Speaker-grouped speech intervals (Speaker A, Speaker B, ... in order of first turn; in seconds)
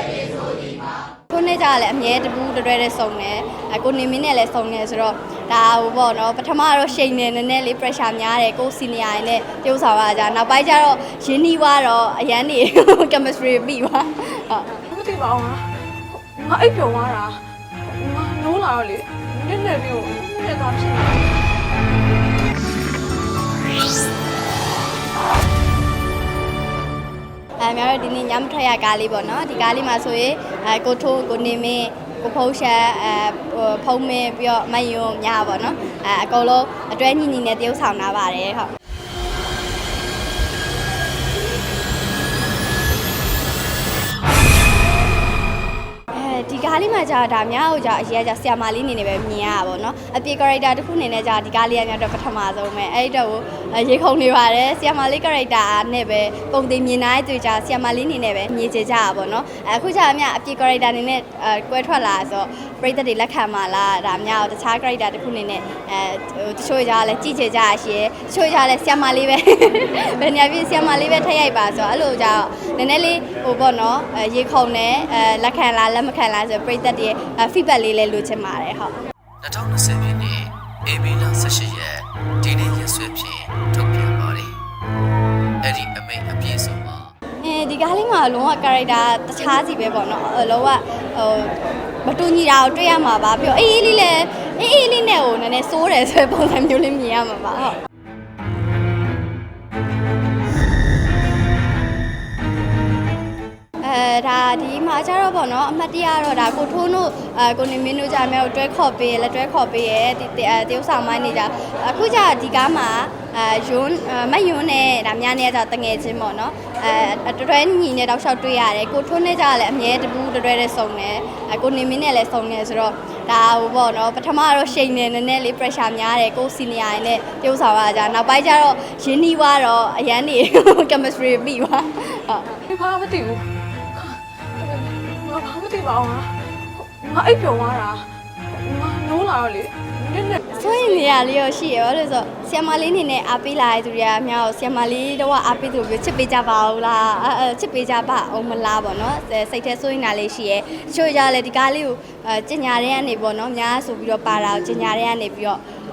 Speaker A: 1.3-14.7, 27.6-38.7, 46.1-79.0, 87.4-97.8, 103.8-132.6, 140.5-155.6
Speaker B: 14.7-21.4, 132.7-141.0
Speaker C: 79.4-84.6, 85.6-87.1